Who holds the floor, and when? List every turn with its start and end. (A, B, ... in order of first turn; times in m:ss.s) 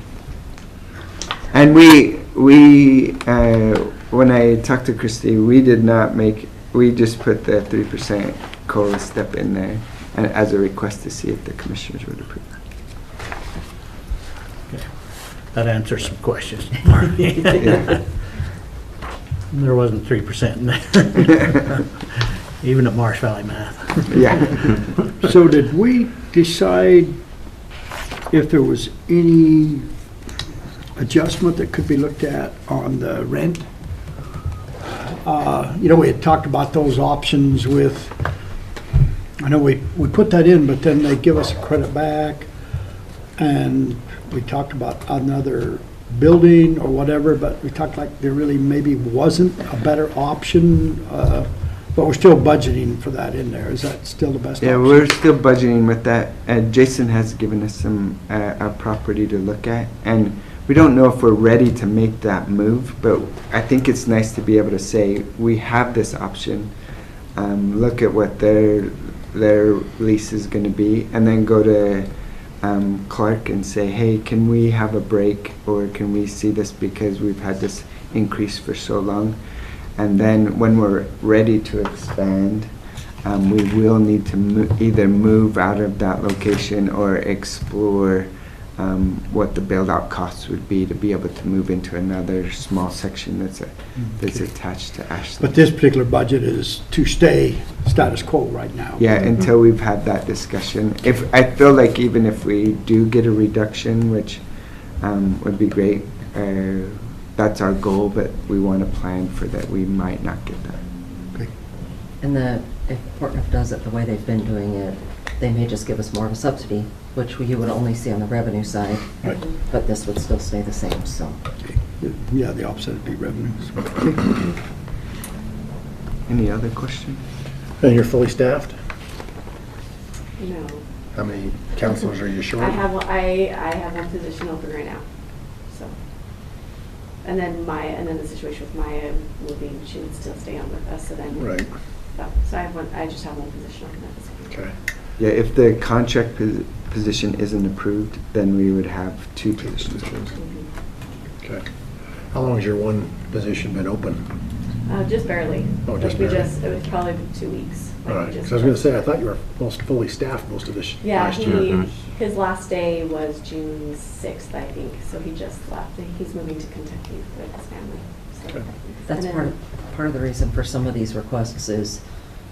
0:01.5-0:12.4 A
0:14.7-0:18.0 B
0:17.6-0:18.0 A
0:19.5-0:22.0 B
0:22.6-0:24.6 B
0:24.1-0:24.7 A
0:25.2-0:27.1 C
0:28.3-0:29.9 C
0:31.0-0:33.7 C
0:35.0-0:38.2 C
0:39.4-0:42.5 C
0:43.4-0:55.1 C
0:54.6-1:06.7 A
1:07.4-1:19.4 A
1:20.0-1:22.7 A
1:23.2-1:35.6 A
1:35.4-1:39.2 C
1:39.0-1:44.4 A
1:45.0-1:50.8 A
1:52.2-2:01.4 D
2:01.8-2:04.4 C
2:06.3-2:07.2 A
2:07.8-2:08.8 E
2:10.4-2:10.8 F
2:11.1-2:12.8 E
2:12.6-2:15.0 F
2:17.2-2:24.6 F
2:21.3-2:21.7 E
2:25.2-2:30.3 A
2:29.6-2:30.3 E
2:30.4-2:30.7 F
2:32.3-2:34.3 E
2:34.9-2:38.9 F
2:35.9-2:36.5 E
2:38.1-2:41.8 E
2:41.0-2:49.5 F
2:49.1-2:52.0 D